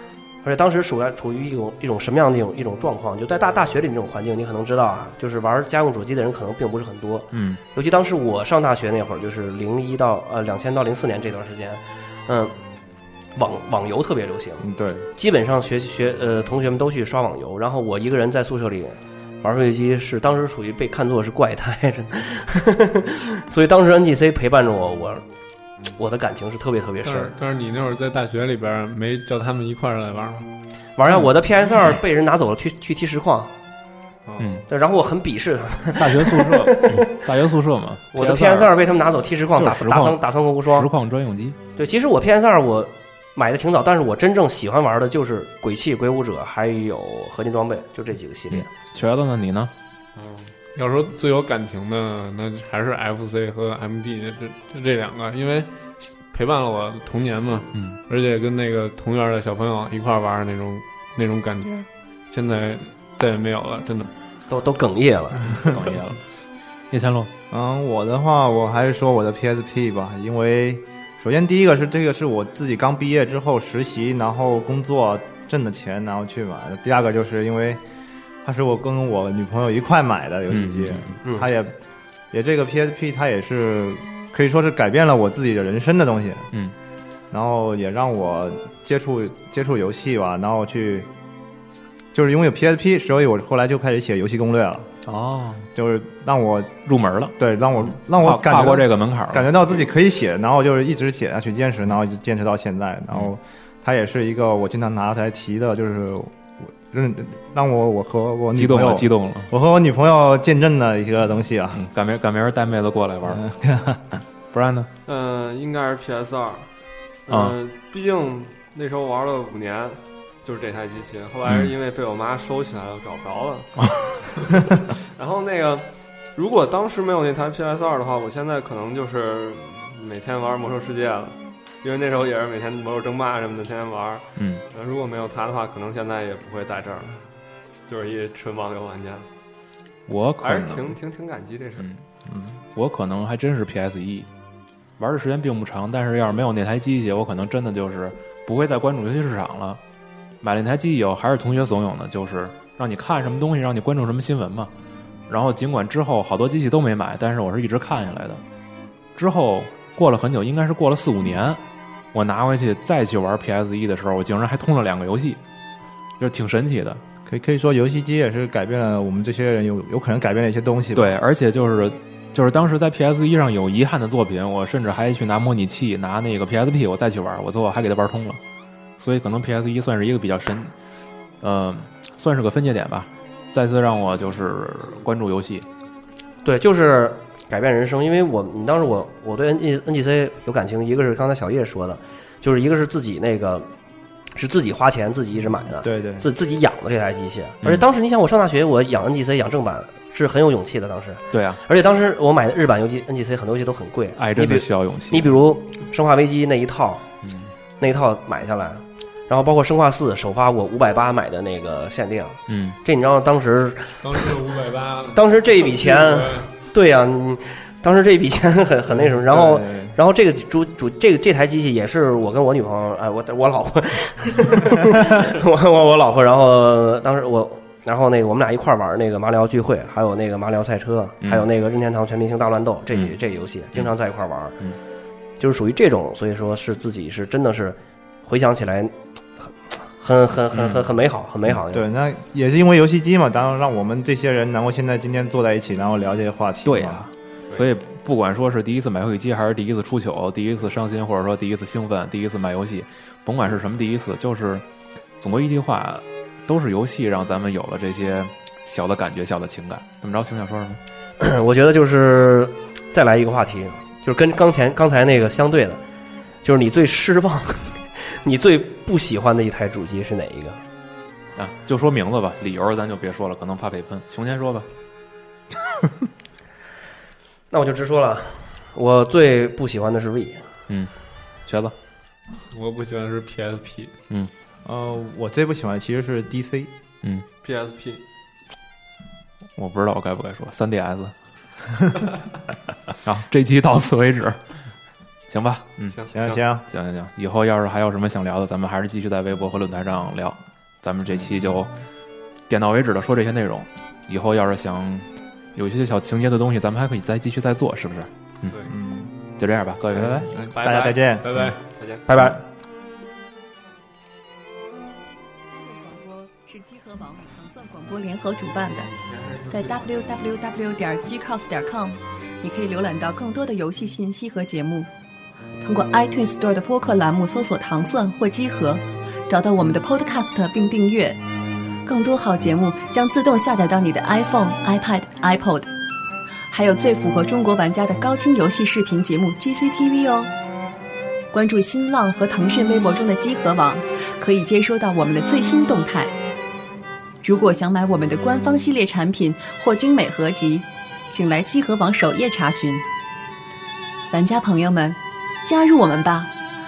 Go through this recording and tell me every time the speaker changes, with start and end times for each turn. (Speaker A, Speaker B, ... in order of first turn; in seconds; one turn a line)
Speaker A: 0.4-12.5
Speaker B: 7.3-7.6
Speaker A: 13.4-14.6
Speaker C: 14.6-15.1
Speaker A: 15.2-25.3
Speaker A: 26.0-27.3
Speaker D: 27.0-30.5
Speaker A: 31.0-33.5
Speaker B: 34.4-34.6
Speaker A: 34.7-37.3
Speaker B: 36.0-38.8
Speaker A: 38.1-40.9
Speaker B: 39.5-41.6
Speaker A: 41.8-48.7
Speaker B: 48.5-49.7
Speaker D: 50.2-64.1
Speaker A: 64.5-65.6
Speaker B: 65.5-66.2
Speaker B: 66.9-67.3
Speaker C: 67.5-77.8
Speaker C: 78.4-81.8
Speaker B: 80.5-81.2
Speaker A: 81.2-81.5
Speaker C: 82.3-86.5
Speaker C: 87.3-91.1
Speaker C: 92.1-94.9
Speaker B: 95.0-95.7
Speaker C: 95.8-96.7
Speaker B: 96.8-99.6
Speaker C: 97.4-111.8
Speaker B: 108.5-109.5
Speaker B: 111.7-113.4
Speaker C: 113.2-114.2
Speaker B: 114.5-114.9
Speaker E: 115.1-137.3
Speaker B: 117.3-117.6
Speaker B: 121.5-121.7
Speaker B: 134.4-134.6
Speaker E: 137.9-139.3
Speaker B: 140.1-141.0
Speaker E: 140.4-141.9
Speaker C: 142.3-142.6
Speaker B: 142.7-144.3
Speaker B: 145.0-149.8
Speaker B: 150.4-154.7
Speaker B: 155.3-158.4
Speaker B: 159.1-161.6
Speaker B: 162.1-165.4
Speaker B: 166.2-167.0
Speaker C: 167.3-171.1
Speaker B: 170.9-178.4
Speaker B: 179.0-180.8
Speaker B: 181.4-185.7
Speaker A: 186.4-193.7
Speaker A: 194.3-207.0
Speaker C: 195.8-196.3
Speaker B: 201.3-201.6
Speaker B: 204.2-205.3
Speaker B: 207.2-207.5
Speaker A: 207.8-214.2
Speaker B: 212.5-212.8
Speaker D: 214.0-216.5
Speaker A: 215.1-234.6
Speaker C: 218.9-219.9
Speaker A: 235.4-241.8
Speaker B: 240.5-240.8
Speaker C: 241.7-247.0
Speaker B: 246.6-254.6
Speaker B: 255.2-260.8
Speaker A: 261.2-265.8
Speaker A: 266.4-270.6
Speaker B: 271.4-274.7
Speaker A: 277.5-280.5
Speaker B: 281.4-281.8
Speaker D: 282.5-283.9
Speaker C: 284.6-286.7
Speaker E: 287.4-288.0
Speaker B: 289.6-291.2
Speaker B: 293.0-294.4
Speaker B: 295.3-296.0
Speaker E: 295.9-296.4
Speaker C: 296.1-296.6
Speaker B: 296.7-301.7
Speaker B: 302.5-308.6
Speaker C: 308.7-309.1
Speaker B: 309.4-310.3
Speaker C: 309.9-311.3
Speaker E: 310.6-312.1
Speaker B: 312.1-312.4
Speaker F: 315.5-318.9
Speaker E: 319.0-319.8
Speaker F: 319.5-324.9
Speaker F: 325.6-331.2
Speaker F: 331.9-335.7
Speaker F: 336.5-340.3
Speaker F: 341.3-346.1
Speaker F: 347.2-352.8
Speaker F: 354.1-356.3